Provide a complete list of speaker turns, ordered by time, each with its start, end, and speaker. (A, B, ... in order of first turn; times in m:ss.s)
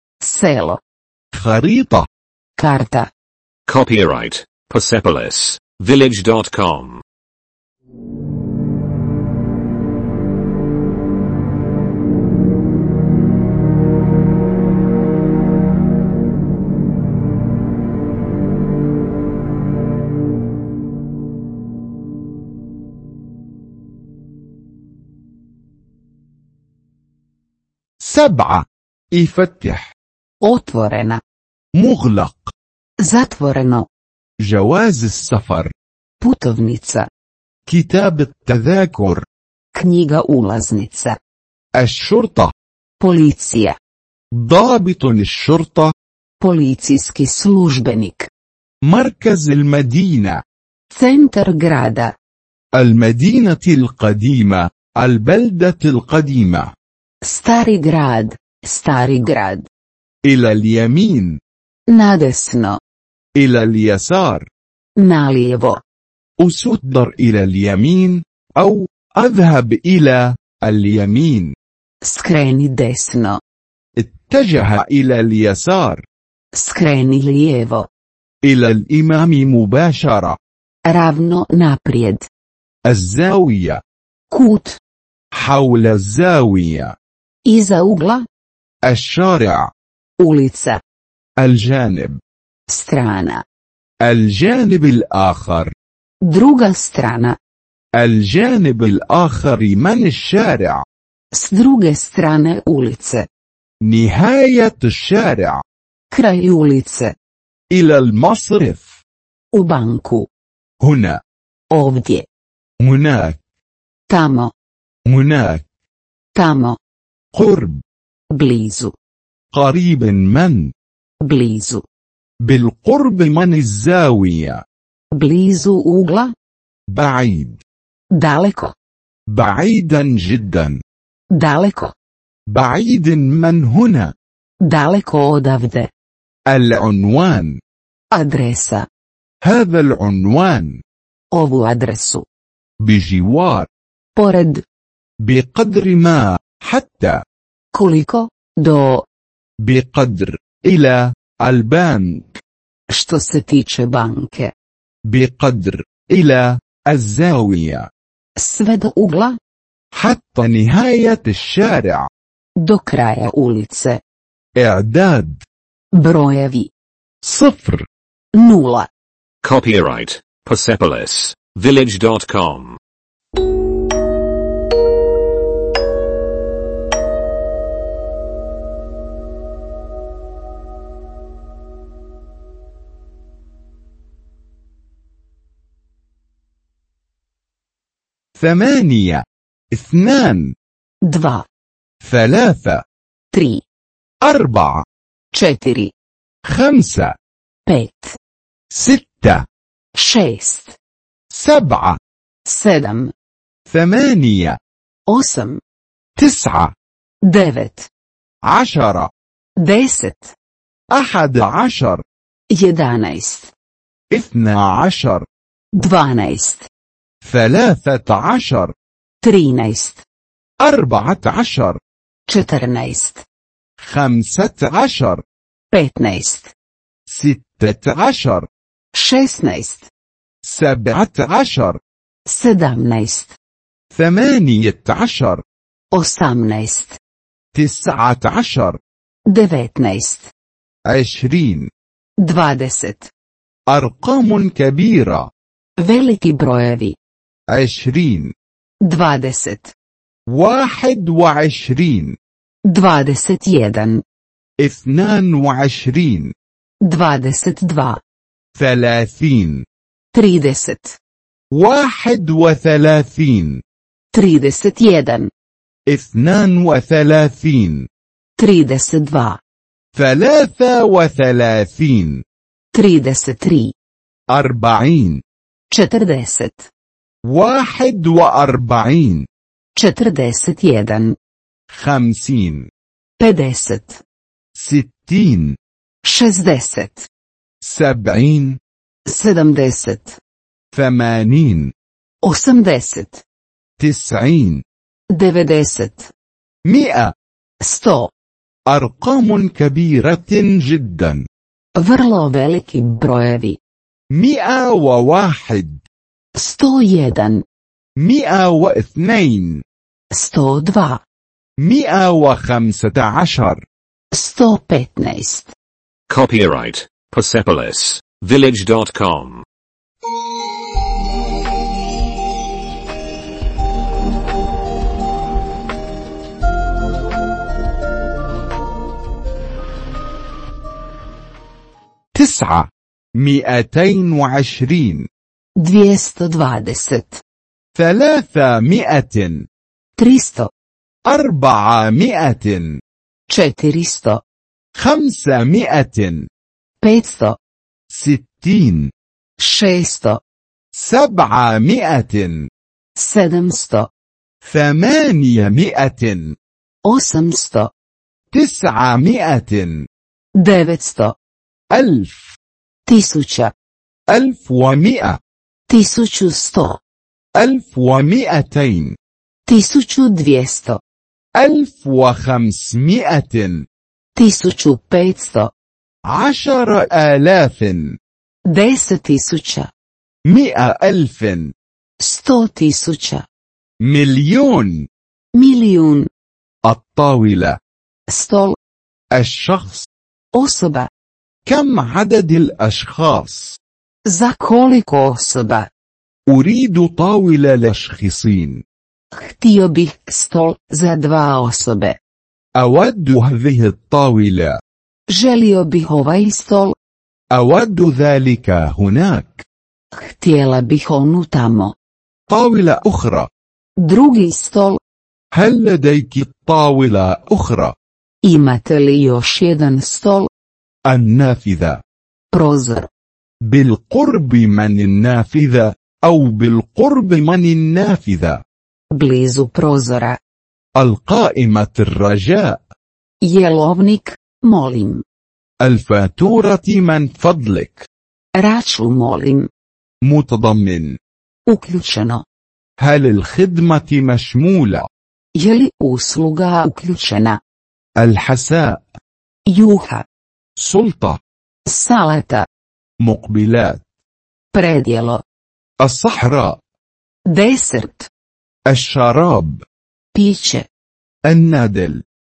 0:00.2-0:00.8 A
0:01.3-0:02.1 B
0:02.6-0:03.1 A
0:03.6-0:07.0 C
0:28.0-0:29.9 B
0:30.4-0:31.2 A
0:31.7-0:32.5 B
0:33.0-0:33.9 A
0:34.4-0:35.7 B
0:36.2-0:37.1 A
0:37.6-0:39.2 B
0:39.7-0:41.2 A
0:41.7-0:42.5 B
0:43.0-0:43.8 A
0:44.3-0:45.9 B
0:46.4-0:48.3 A
0:48.8-0:50.4 B
0:50.9-0:52.1 A
0:52.7-0:56.7 B
0:57.2-0:59.6 A
1:00.2-1:01.4 B
1:01.9-1:02.8 A
1:03.4-1:04.5 B
1:05.0-1:05.8 A
1:06.4-1:11.5 B
1:12.0-1:13.4 A
1:14.0-1:16.0 B
1:16.5-1:17.9 A
1:18.4-1:20.4 B
1:20.9-1:22.2 A
1:22.8-1:23.8 B
1:24.3-1:24.8 A
1:25.3-1:26.9 B
1:27.4-1:28.2 A
1:28.8-1:29.7 B
1:30.2-1:30.8 A
1:31.4-1:32.2 B
1:32.7-1:33.4 A
1:34.0-1:35.7 B
1:36.2-1:37.4 A
1:38.0-1:40.8 B
1:41.3-1:43.3 A
1:43.8-1:45.6 B
1:46.1-1:47.1 A
1:47.7-1:48.9 B
1:49.5-1:50.3 A
1:50.8-1:51.2 B
1:51.7-1:52.2 A
1:52.8-1:53.4 B
1:54.1-1:54.5 A
1:55.0-1:55.6 B
1:56.3-1:56.8 A
1:57.3-1:57.8 B
1:58.3-1:58.9 A
1:59.5-2:00.7 B
2:01.2-2:01.8 A
2:02.4-2:04.6 B
2:05.1-2:06.3 A
2:06.9-2:07.6 B
2:08.1-2:08.7 A
2:09.3-2:10.8 B
2:11.3-2:11.9 A
2:12.5-2:14.1 B
2:14.6-2:15.9 A
2:16.5-2:17.6 B
2:18.1-2:18.9 A
2:19.4-2:20.8 B
2:21.3-2:22.2 A
2:22.8-2:23.7 B
2:24.2-2:24.6 A
2:25.2-2:27.2 B
2:27.7-2:29.0 A
2:29.6-2:32.4 B
2:32.9-2:34.5 A
2:35.1-2:37.9 B
2:38.4-2:39.4 A
2:39.9-2:42.1 B
2:42.6-2:44.0 A
2:44.6-2:45.4 B
2:45.9-2:46.7 A
2:47.2-2:47.9 B
2:48.3-2:48.9 A
2:49.4-2:52.8 C
3:08.4-3:10.5 B
3:11.0-3:11.5 A
3:12.0-3:12.8 B
3:13.3-3:13.6 A
3:14.2-3:14.8 B
3:15.3-3:15.9 A
3:16.4-3:17.2 B
3:17.6-3:18.2 A
3:18.7-3:19.4 B
3:19.9-3:20.8 A
3:21.3-3:22.0 B
3:22.4-3:23.1 A
3:23.7-3:24.6 B
3:25.1-3:25.6 A
3:26.2-3:26.7 B
3:27.2-3:27.9 A
3:28.4-3:29.1 B
3:29.6-3:30.3 A
3:30.9-3:32.0 B
3:32.5-3:33.5 A
3:34.1-3:35.2 B
3:35.8-3:36.7 A
3:37.2-3:38.7 B
3:39.2-3:40.0 A
3:40.6-3:41.8 B
3:42.3-3:43.2 A
3:43.8-3:45.2 B
3:45.7-3:46.5 A
3:47.1-3:48.5 B
3:48.9-3:49.9 A
3:50.4-3:51.8 B
3:52.2-3:53.4 A
3:53.9-3:55.4 B
3:55.9-3:57.0 A
3:57.5-3:58.8 B
3:59.3-4:00.3 A
4:00.8-4:01.7 B
4:02.2-4:03.1 A
4:03.7-4:05.3 B
4:05.8-4:07.0 A
4:07.5-4:08.3 B
4:08.8-4:09.7 A
4:10.3-4:12.2 B
4:12.7-4:14.0 A
4:14.6-4:16.3 B
4:16.8-4:18.0 A
4:18.5-4:19.6 B
4:20.1-4:21.0 A
4:21.5-4:23.6 B
4:24.1-4:25.3 A
4:25.9-4:27.9 B
4:28.4-4:29.4 A
4:29.9-4:32.2 B
4:32.7-4:33.7 A
4:34.3-4:35.2 B
4:35.7-4:36.7 A
4:37.2-4:39.3 B
4:39.8-4:41.2 A
4:41.7-4:42.7 B
4:43.2-4:44.0 A
4:44.5-4:45.6 B
4:46.0-4:47.1 A
4:47.6-4:48.6 B
4:49.1-4:50.2 A
4:50.7-4:51.7 B
4:52.2-4:53.2 A
4:53.8-4:54.6 B
4:55.1-4:56.1 A
4:56.6-4:57.1 B
4:57.6-4:58.1 A
4:58.7-5:01.2 B
5:01.8-5:03.6 A
5:04.1-5:05.8 B
5:06.4-5:07.4 A
5:08.0-5:09.6 B
5:10.1-5:11.0 A
5:11.6-5:13.6 B
5:14.1-5:15.5 A
5:16.1-5:19.4 C
5:32.1-5:35.1 B
5:35.6-5:37.2 A
5:37.7-5:39.5 B
5:40.0-5:40.5 A
5:41.0-5:42.8 B
5:43.3-5:44.2 A
5:44.7-5:46.3 B
5:46.8-5:47.4 A
5:47.9-5:48.9 B
5:49.4-5:50.2 A
5:50.7-5:52.5 B
5:53.0-5:53.9 A
5:54.4-5:56.4 B
5:56.8-5:57.7 A
5:58.3-5:59.9 B
6:00.4-6:01.2 A
6:01.7-6:02.4 B
6:02.9-6:03.5 A
6:04.1-6:05.2 B
6:05.7-6:06.8 A
6:07.4-6:09.0 B
6:09.5-6:10.8 A
6:11.4-6:13.6 B
6:14.2-6:15.5 A
6:16.0-6:18.0 B
6:18.5-6:19.7 A
6:20.3-6:21.5 B
6:22.0-6:23.2 A
6:23.8-6:24.9 B
6:25.3-6:26.1 A
6:26.6-6:27.6 B
6:28.1-6:28.6 A
6:29.1-6:29.9 B
6:30.3-6:30.9 A
6:31.4-6:33.6 B
6:34.1-6:35.7 A
6:36.3-6:38.6 B
6:39.1-6:42.0 A
6:42.6-6:44.6 B
6:45.1-6:46.7 A
6:47.3-6:49.4 B
6:49.9-6:51.7 A
6:52.3-6:53.3 B
6:53.8-6:54.8 A
6:55.3-6:57.7 B
6:58.2-7:00.3 A
7:00.8-7:01.8 B
7:02.3-7:02.9 A
7:03.4-7:08.4 B
7:08.9-7:10.2 A
7:10.8-7:12.6 B
7:13.2-7:15.0 A
7:15.6-7:17.9 B
7:18.4-7:19.5 A
7:20.0-7:21.0 B
7:21.5-7:22.2 A
7:22.8-7:24.9 B
7:25.4-7:27.4 A
7:28.0-7:28.8 B
7:29.5-7:30.0 A
7:30.6-7:31.2 B
7:31.6-7:32.4 A
7:33.0-7:33.8 B
7:34.5-7:35.2 A
7:35.8-7:36.6 B
7:37.3-7:38.1 A
7:38.7-7:39.6 B
7:40.1-7:40.7 A
7:41.2-7:42.0 B